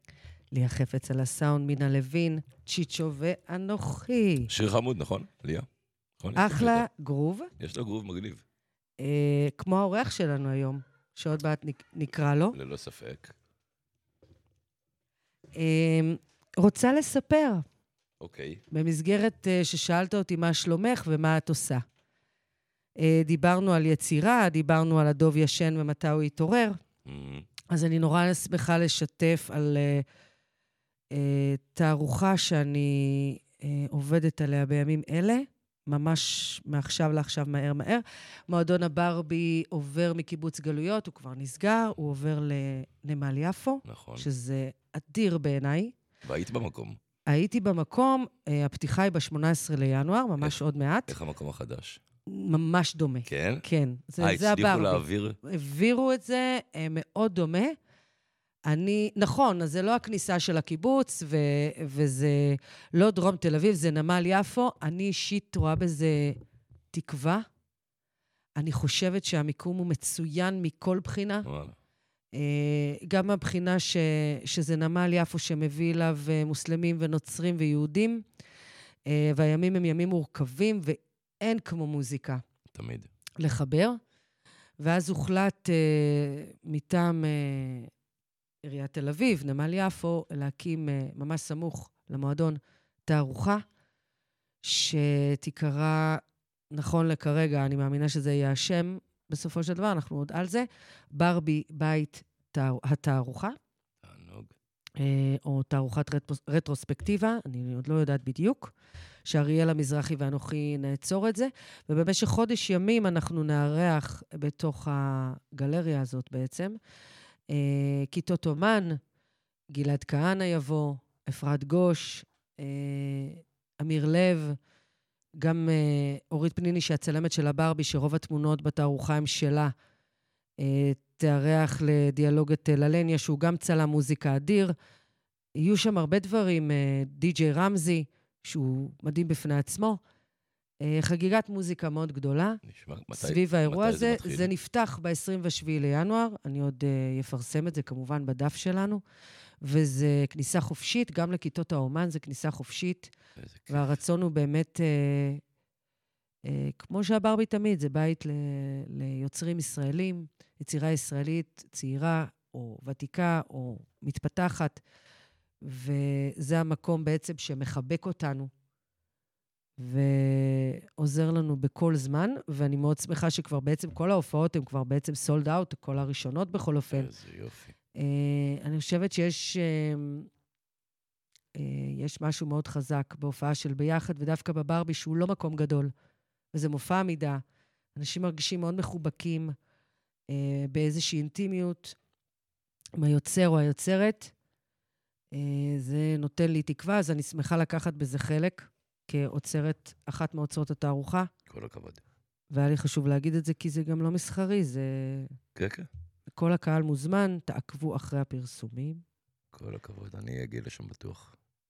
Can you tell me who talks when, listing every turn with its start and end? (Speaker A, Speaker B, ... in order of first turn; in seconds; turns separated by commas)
Speaker A: 0.5-4.5, Speaker B: 4.5-5.7, Speaker B: 6.2-6.9, Speaker A: 6.4-7.5, Speaker B: 7.6-8.4, Speaker A: 9.0-12.6, Speaker B: 12.5-13.3, Speaker A: 15.6-17.6, Speaker B: 18.2-18.6, Speaker A: 18.7-21.8, Speaker A: 23.0-26.8, Speaker B: 27.1-27.5, Speaker A: 27.7-30.1, Speaker A: 31.1-46.0, Speaker B: 43.9-44.3, Speaker B: 46.2-47.0, Speaker A: 47.3-51.1, Speaker B: 50.4-52.0, Speaker A: 52.3-57.8, Speaker B: 53.3-53.6, Speaker B: 54.2-55.4, Speaker A: 58.7-66.4, Speaker A: 66.9-67.5, Speaker A: 68.6-71.5, Speaker B: 71.4-71.8, Speaker A: 72.3-78.2, Speaker A: 79.1-82.4, Speaker B: 82.7-83.1, Speaker A: 83.4-84.0, Speaker A: 84.8-87.9, Speaker A: 88.6-93.6, Speaker A: 94.6-103.6, Speaker B: 104.0-104.5, Speaker A: 105.0-108.7, Speaker A: 109.3-116.8, Speaker A: 117.5-119.0, Speaker A: 119.7-124.6, Speaker A: 125.4-129.7, Speaker A: 130.6-134.7, Speaker A: 135.6-140.0, Speaker A: 140.8-142.6, Speaker B: 142.6-144.5, Speaker A: 143.2-149.0, Speaker A: 149.6-153.1, Speaker B: 153.4-153.9, Speaker A: 153.7-155.4, Speaker A: 156.4-164.8, Speaker A: 165.6-168.5, Speaker A: 169.8-177.1, Speaker B: 176.9-177.7, Speaker A: 177.9-180.3, Speaker A: 181.6-185.9, Speaker A: 186.5-187.4, Speaker A: 187.9-189.6, Speaker A: 190.3-192.0, Speaker A: 193.0-194.3, Speaker A: 195.3-201.3, Speaker B: 201.5-202.0, Speaker A: 202.5-205.3, Speaker B: 205.6-205.9, Speaker A: 206.3-209.0, Speaker B: 209.5-211.3